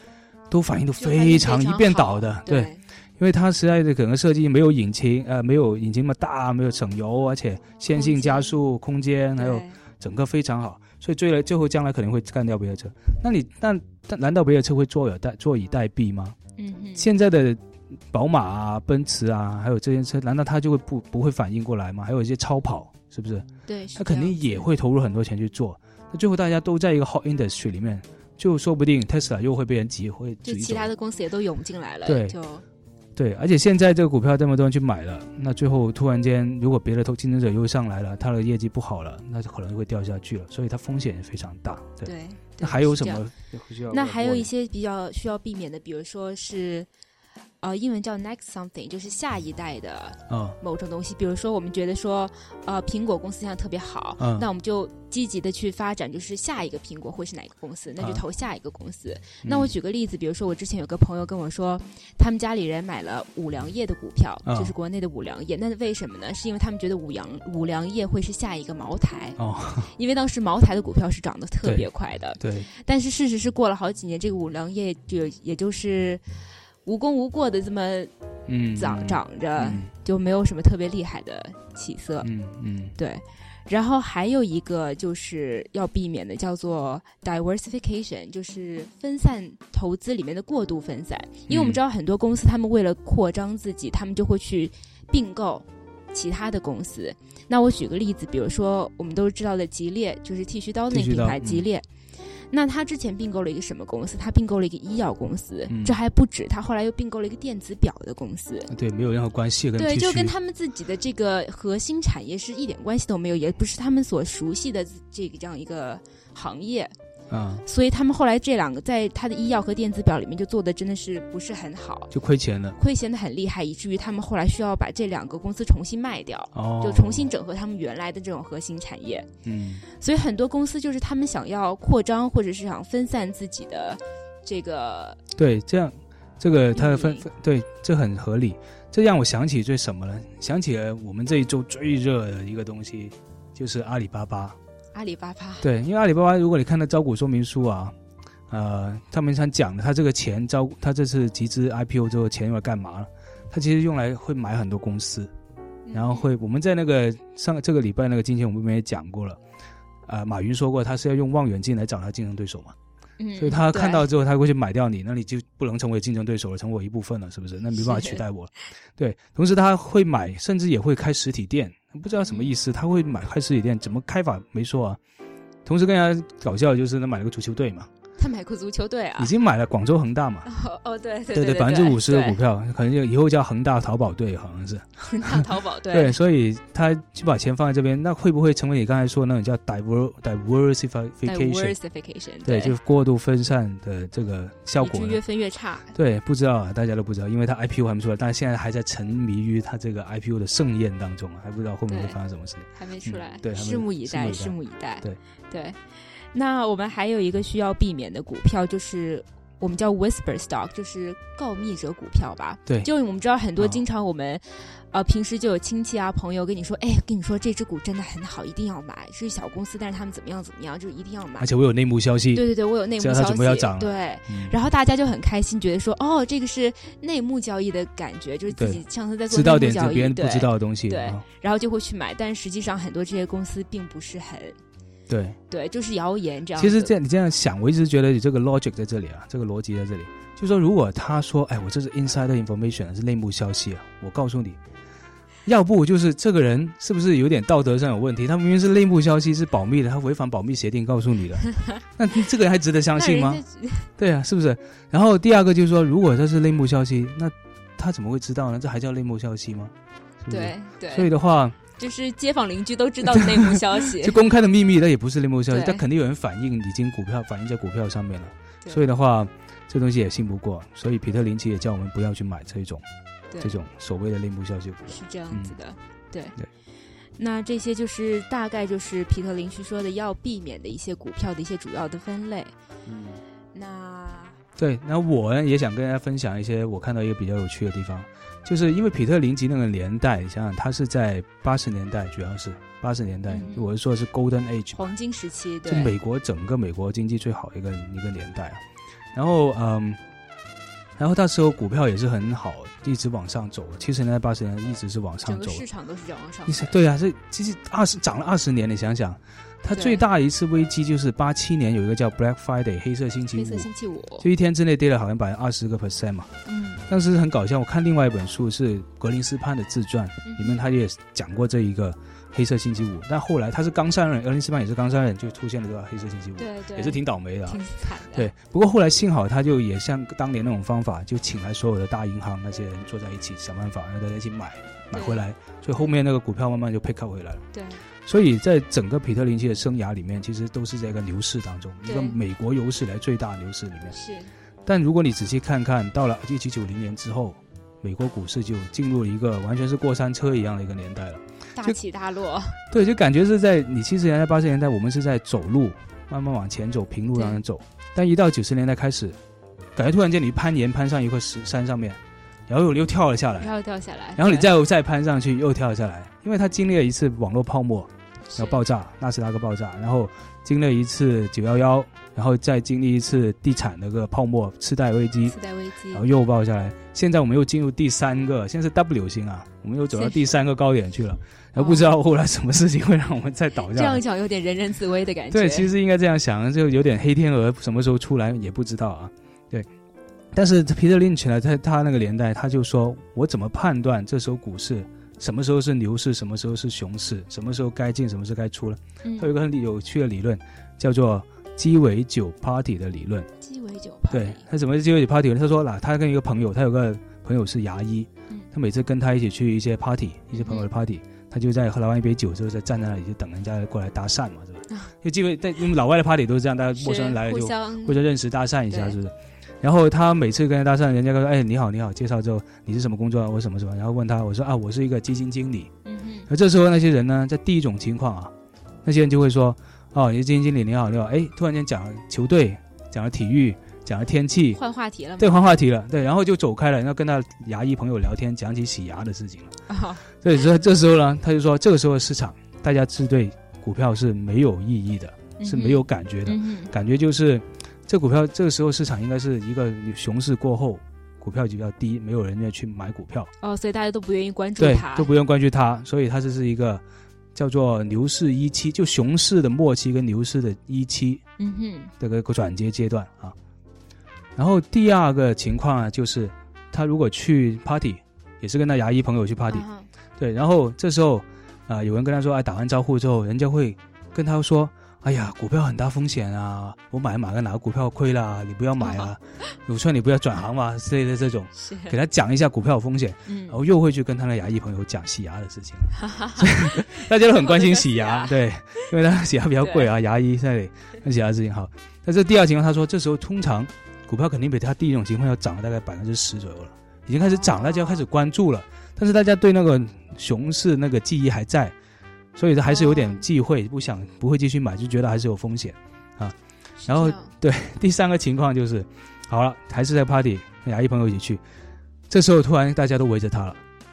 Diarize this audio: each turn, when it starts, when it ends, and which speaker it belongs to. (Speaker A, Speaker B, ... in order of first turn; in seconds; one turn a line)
Speaker A: 0.5-16.4
Speaker B: 1.0-2.8
Speaker B: 7.9-8.6
Speaker B: 9.4-9.8
Speaker B: 16.6-17.1
Speaker A: 17.0-17.6
Speaker A: 18.1-30.9
Speaker B: 23.6-24.5
Speaker B: 30.4-32.6
Speaker A: 32.0-32.4
Speaker A: 33.1-44.5
Speaker B: 42.0-43.2
Speaker B: 43.9-46.9
Speaker B: 47.6-69.4
Speaker A: 50.3-50.6
Speaker A: 54.2-54.5
Speaker A: 59.4-59.7
Speaker A: 64.5-64.7
Speaker A: 69.4-69.9
Speaker B: 69.9-76.2
Speaker A: 71.6-71.9
Speaker A: 72.4-72.7
Speaker B: 76.8-78.1
Speaker A: 78.5-79.9
Speaker B: 78.7-82.3
Speaker A: 82.2-82.9
Speaker B: 83.0-101.8
Speaker A: 91.5-91.8
Speaker A: 100.9-101.7
Speaker B: 102.5-108.7
Speaker A: 105.7-106.0
Speaker A: 108.7-110.3
Speaker B: 109.8-116.9
Speaker A: 117.3-117.6
Speaker B: 117.6-122.1
Speaker A: 122.1-122.8
Speaker B: 122.8-129.3
Speaker A: 126.5-127.3
Speaker A: 129.4-129.8
Speaker B: 129.9-135.2
Speaker A: 135.3-144.6
Speaker B: 136.7-137.3
Speaker B: 144.9-145.7
Speaker A: 145.6-147.9
Speaker A: 148.5-155.3
Speaker B: 155.8-156.3
Speaker A: 155.9-159.4
Speaker A: 160.1-162.7
Speaker B: 163.2-164.1
Speaker A: 163.4-175.0
Speaker B: 167.8-168.2
Speaker B: 172.2-172.5
Speaker A: 175.7-177.9
Speaker B: 178.2-179.3
Speaker A: 179.2-180.5
Speaker B: 180.4-182.4
Speaker A: 181.3-191.7
Speaker B: 185.0-186.2
Speaker B: 191.2-192.8
Speaker A: 192.4-195.2
Speaker B: 194.8-195.9
Speaker A: 195.9-205.2
Speaker B: 201.9-202.2
Speaker B: 202.7-221.5
Speaker A: 221.4-222.4
Speaker B: 222.3-234.6
Speaker A: 223.0-224.5
Speaker A: 228.5-231.2
Speaker A: 235.1-235.4
Speaker B: 235.5-236.9
Speaker A: 236.6-244.6
Speaker A: 245.4-253.4
Speaker B: 252.9-253.9
Speaker A: 254.0-259.7
Speaker A: 260.2-261.6
Speaker B: 260.3-261.1
Speaker B: 261.7-264.2
Speaker A: 264.0-272.8
Speaker B: 265.5-265.8
Speaker B: 273.3-273.6
Speaker A: 273.4-275.5
Speaker B: 274.9-276.4
Speaker B: 277.2-282.5
Speaker A: 282.9-283.2
Speaker B: 283.5-284.4
Speaker A: 284.6-294.9
Speaker B: 293.3-293.7
Speaker B: 294.7-295.9
Speaker A: 295.7-298.6
Speaker A: 299.1-300.0
Speaker A: 301.0-305.6
Speaker B: 305.2-306.8
Speaker A: 306.5-313.7
Speaker B: 309.7-310.0
Speaker B: 313.3-314.3
Speaker A: 314.2-316.3
Speaker B: 316.4-316.9
Speaker A: 316.9-337.4
Speaker B: 320.2-320.6
Speaker B: 326.4-328.3
Speaker B: 334.9-335.2
Speaker B: 337.5-337.8
Speaker A: 338.1-343.9
Speaker B: 341.8-342.2
Speaker B: 343.9-344.3
Speaker A: 344.6-351.8
Speaker B: 351.6-352.6
Speaker A: 352.7-359.2
Speaker B: 357.1-357.4
Speaker A: 359.8-363.5
Speaker B: 363.4-364.5
Speaker A: 364.2-375.4
Speaker B: 368.3-368.6
Speaker B: 375.3-376.0
Speaker A: 375.9-384.0
Speaker B: 379.9-380.2
Speaker B: 381.6-382.0
Speaker B: 383.6-385.7
Speaker A: 385.3-389.7
Speaker A: 390.3-403.3
Speaker B: 399.0-399.3
Speaker B: 403.4-404.4
Speaker A: 404.1-425.7
Speaker B: 410.3-410.7
Speaker B: 416.7-418.0
Speaker B: 418.7-419.0
Speaker B: 425.8-426.3
Speaker A: 426.3-428.3
Speaker A: 428.8-434.6
Speaker B: 434.5-435.4
Speaker A: 435.2-439.5
Speaker B: 439.7-440.1
Speaker A: 440.2-453.3
Speaker B: 445.4-446.7
Speaker B: 453.4-455.1
Speaker A: 454.6-456.8
Speaker A: 457.3-461.2
Speaker B: 461.4-461.9
Speaker A: 462.0-463.3
Speaker A: 464.4-469.6
Speaker B: 469.5-469.9
Speaker A: 470.2-501.7
Speaker B: 478.8-479.1
Speaker B: 481.6-481.9
Speaker B: 483.3-483.6
Speaker B: 485.9-488.4
Speaker B: 489.6-489.9
Speaker B: 497.3-498.0
Speaker A: 502.4-506.3
Speaker B: 502.6-503.3
Speaker B: 506.8-507.3
Speaker A: 506.9-511.4
Speaker A: 512.1-513.6